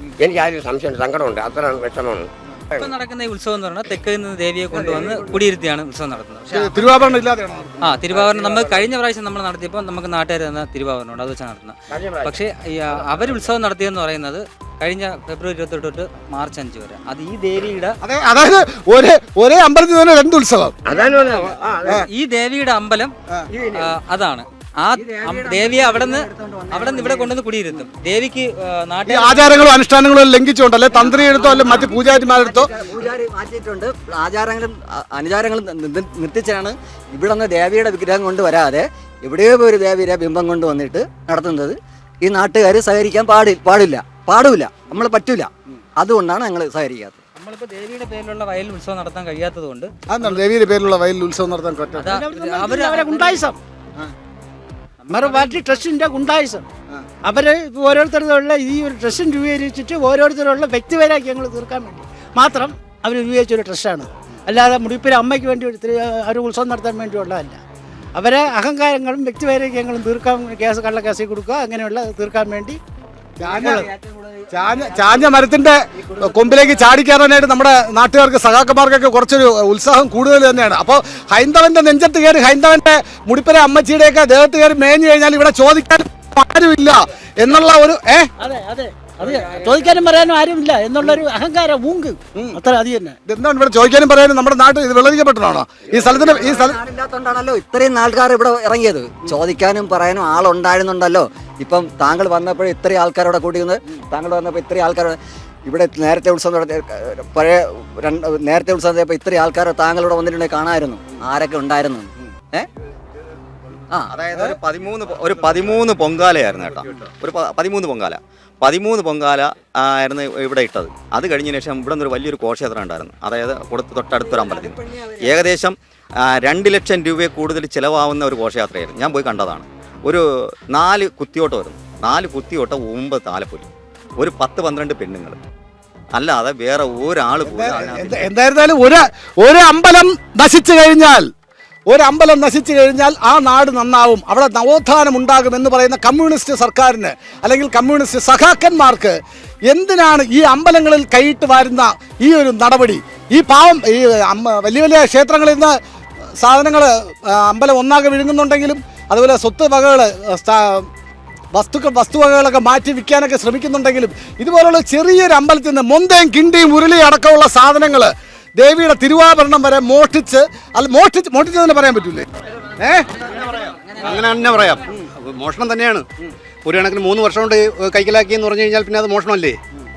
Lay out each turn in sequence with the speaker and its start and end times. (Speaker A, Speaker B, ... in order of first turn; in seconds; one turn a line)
Speaker A: 0.2-2.9
Speaker B: 2.7-6.9
Speaker A: 4.8-5.3
Speaker C: 6.5-7.9
Speaker B: 7.8-18.0
Speaker A: 8.1-8.8
Speaker A: 11.9-12.3
Speaker A: 12.9-13.2
Speaker C: 18.0-20.8
Speaker A: 20.9-22.0
Speaker B: 20.9-23.1
Speaker A: 23.5-23.9
Speaker B: 23.7-29.7
Speaker D: 24.9-27.3
Speaker C: 29.1-32.7
Speaker D: 30.9-47.2
Speaker B: 47.4-50.4
Speaker C: 50.1-52.1
Speaker B: 52.0-53.5
Speaker E: 52.1-53.6
Speaker B: 55.0-55.8
Speaker E: 55.1-56.6
Speaker E: 57.3-67.6
Speaker E: 68.2-72.8
Speaker C: 73.4-73.9
Speaker D: 73.5-75.3
Speaker C: 74.5-88.3
Speaker D: 76.2-76.5
Speaker E: 88.4-93.2
Speaker C: 93.2-96.8
Speaker D: 96.0-112.7
Speaker F: 114.1-135.4
Speaker D: 124.2-125.4
Speaker F: 136.2-138.3
Speaker C: 137.5-141.3
Speaker C: 141.9-155.8
Speaker C: 156.4-160.9
Speaker C: 161.5-173.1
Speaker G: 174.0-176.0
Speaker G: 176.7-179.6